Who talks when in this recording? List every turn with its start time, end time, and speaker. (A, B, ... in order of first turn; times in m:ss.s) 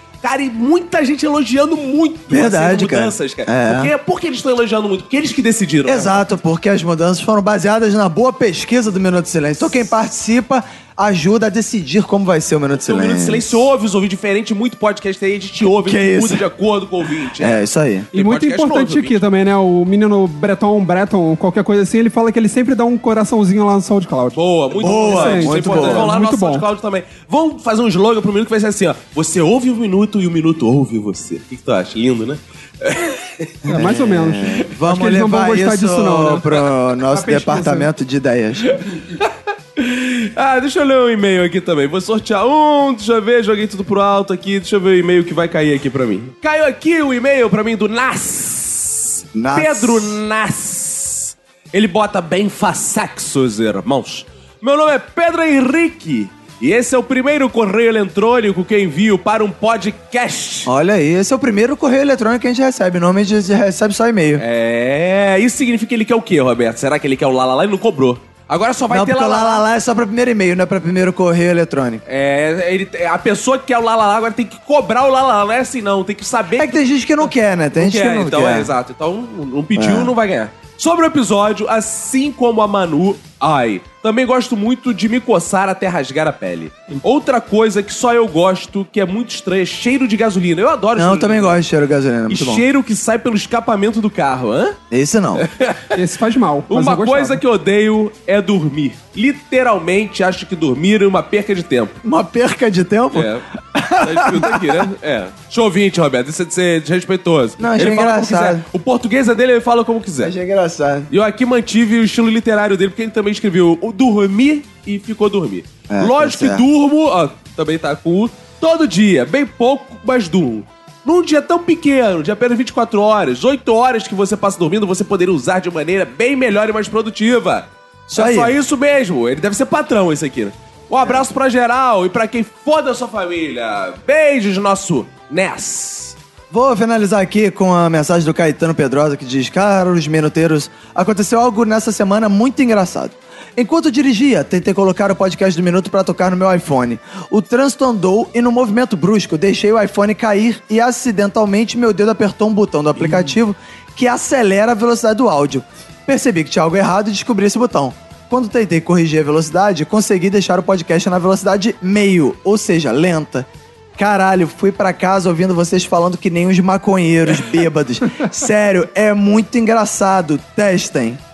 0:00.2-0:06.2 A
0:02.3-0:03.9 B
0:05.8-0:13.6 B
0:12.8-0:17.6 A
0:15.8-0:16.4 B
0:17.4-0:18.1 B
0:18.1-0:19.2 A
0:18.1-0:24.4 C
0:24.4-0:33.5 A
0:24.8-0:26.1 B
0:25.0-0:26.7 C
0:33.7-0:37.9 C
0:33.7-0:38.7 B
0:38.7-1:00.7 A
0:49.3-0:50.2 B
1:00.7-1:04.4 B
1:04.4-1:09.7 A
1:08.9-1:12.0 B
1:12.1-1:31.6 A
1:16.6-1:18.7 B
1:19.8-1:20.1 B
1:31.0-1:32.6 B
1:32.3-1:34.8 A
1:34.9-1:35.5 B
1:35.4-1:36.0 A
1:36.0-1:37.4 C
1:36.7-1:42.0 A
1:42.0-1:44.6 B
1:43.1-1:43.4 A
1:44.0-1:50.3 A
1:47.6-1:48.6 B
1:50.2-1:51.1 B
1:51.1-2:16.2 A
1:55.9-1:56.6 B
2:08.1-2:08.5 B
2:16.5-2:51.2 B